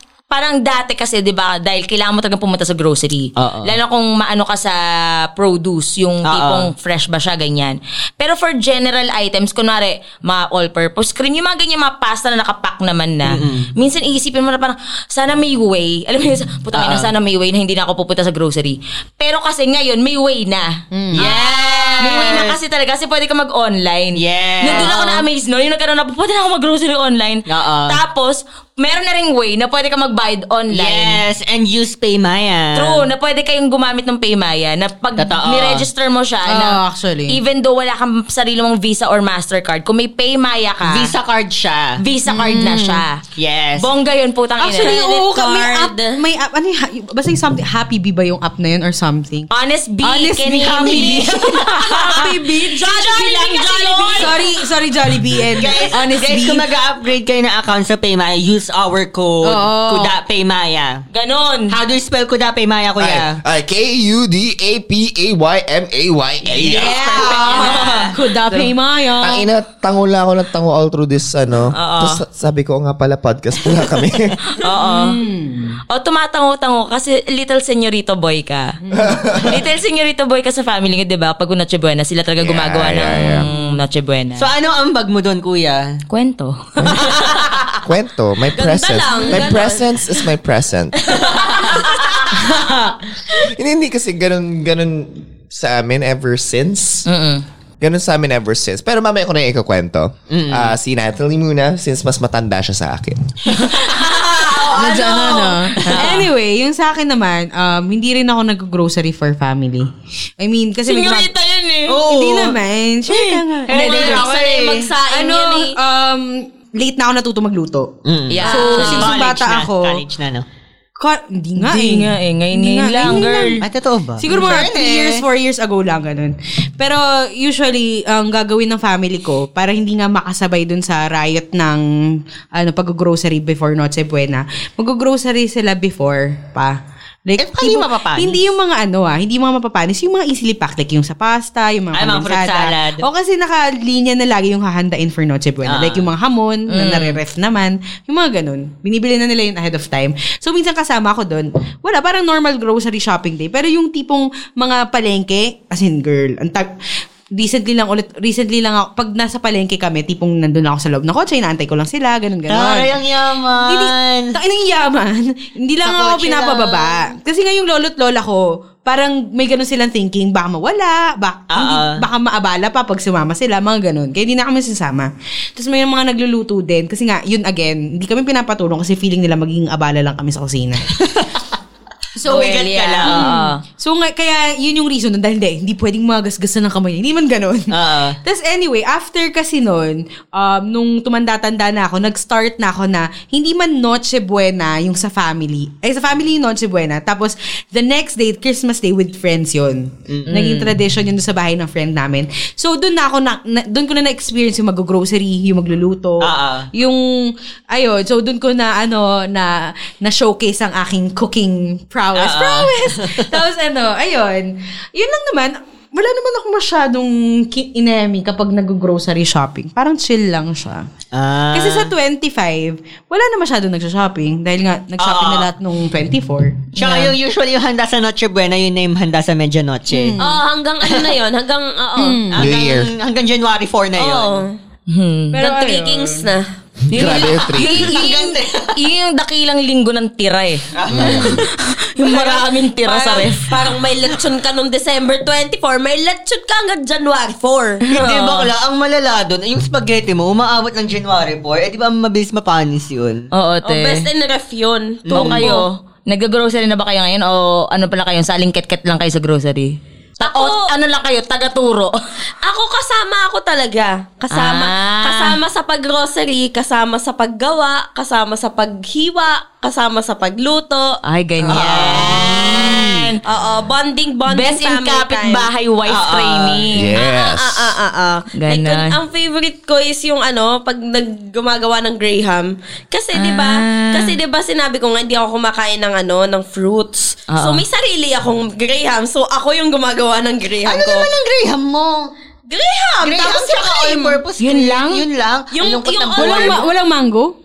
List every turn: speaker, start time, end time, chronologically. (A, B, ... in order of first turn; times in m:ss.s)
0:00.3-0:31.2 A
0:03.4-0:03.8 B
0:06.3-0:06.7 B
0:13.3-0:13.7 B
0:16.7-0:17.1 B
0:20.9-0:21.3 C
0:21.2-0:22.6 B
0:24.2-0:25.2 B
0:27.5-0:28.0 B
0:30.7-0:33.0 B
0:32.8-0:41.1 A
0:35.2-0:35.9 B
0:36.5-0:37.4 C
0:40.8-0:42.0 B
0:42.0-0:43.2 A
0:42.3-0:43.0 C
0:43.4-0:43.9 B
0:43.8-0:45.2 A
0:44.6-0:49.5 C
0:44.8-0:46.2 D
0:49.5-0:54.3 A
0:50.0-0:56.6 C
0:50.7-0:52.3 B
0:55.4-1:01.0 B
0:55.8-0:56.2 A
0:59.4-1:00.1 C
1:01.1-1:01.7 A
1:01.7-1:03.4 B
1:03.0-1:07.7 E
1:06.6-1:08.1 B
1:06.9-1:09.4 C
1:07.1-1:08.6 A
1:09.2-1:14.4 E
1:11.7-1:12.2 A
1:14.6-1:15.0 A
1:14.6-1:15.2 B
1:14.8-1:15.8 C
1:15.9-1:18.8 A
1:18.8-1:19.3 C
1:18.9-1:19.5 E
1:19.3-1:24.5 A
1:22.4-1:23.5 E
1:23.1-1:23.7 C
1:24.4-1:26.0 B
1:26.1-1:27.2 A
1:26.9-1:27.4 B
1:27.8-1:31.2 E
1:28.6-1:29.9 D
1:31.1-1:32.0 B
1:33.4-1:37.1 E
1:37.1-1:37.4 A
1:37.8-1:43.2 E
1:40.3-1:40.8 B
1:43.5-1:46.2 A
1:44.4-1:49.9 C
1:44.5-1:46.1 B
1:50.4-1:51.3 C
1:50.8-1:52.0 A
1:51.9-1:54.9 B
1:52.0-1:54.2 C
1:53.7-1:55.8 D
1:53.7-1:54.2 A
1:55.1-1:57.9 C
1:58.0-2:00.5 B
1:58.3-1:59.1 A
1:58.4-2:00.0 C
1:58.6-1:58.8 D
2:01.0-2:03.6 C
2:01.6-2:03.6 A
2:03.6-2:05.2 B
2:04.2-2:36.7 C
2:17.4-2:18.4 B
2:22.0-2:23.0 B
2:25.6-2:26.1 B
2:26.7-2:27.2 A
2:37.4-2:43.0 C
2:42.5-2:44.4 B
2:43.6-3:00.9 C
2:45.8-2:47.1 B
2:51.5-2:52.0 B
3:01.0-3:01.3 B
3:02.2-3:40.8 C
3:02.3-3:03.2 B
3:02.3-3:03.6 A
3:07.7-3:08.2 B
3:20.1-3:20.7 B
3:20.3-3:20.6 A
3:26.2-3:26.7 B
3:32.2-3:33.3 B
3:41.1-3:41.9 B
3:41.5-3:47.2 C
3:45.0-3:45.5 B
3:46.8-3:50.2 B
3:49.9-3:50.4 C
3:50.2-3:52.2 D
3:50.8-3:51.2 B
3:52.0-3:52.4 C
3:52.3-3:54.4 B
3:52.4-3:52.9 E
3:54.0-3:54.5 D
3:54.9-3:55.4 A
3:55.3-3:56.4 D
3:55.4-3:56.3 C
3:56.9-3:57.9 E
3:56.9-4:03.6 A
3:57.0-3:58.8 B
4:00.8-4:01.5 B
4:00.9-4:01.4 E
4:02.0-4:07.8 D
4:07.9-4:08.5 A
4:07.9-4:13.3 B
4:13.3-4:14.1 A
4:13.6-4:15.6 D
4:15.1-4:15.5 B
4:15.2-4:21.9 A
4:20.2-4:20.6 D
4:22.4-4:31.0 D
4:24.3-4:25.4 A
4:31.0-4:33.2 A
4:31.5-4:33.0 B
4:31.6-4:32.6 D
4:33.2-4:35.5 D
4:34.3-4:37.0 A
4:36.0-4:36.6 B
4:36.7-4:37.8 E
4:37.0-4:51.1 D
4:38.4-4:38.9 A
4:43.1-4:44.2 A
4:47.3-4:47.6 A
4:50.7-4:52.1 B
4:52.5-4:54.2 D
4:53.0-4:56.6 B
4:54.4-4:55.0 A
4:55.5-4:56.7 D
4:56.2-4:57.3 C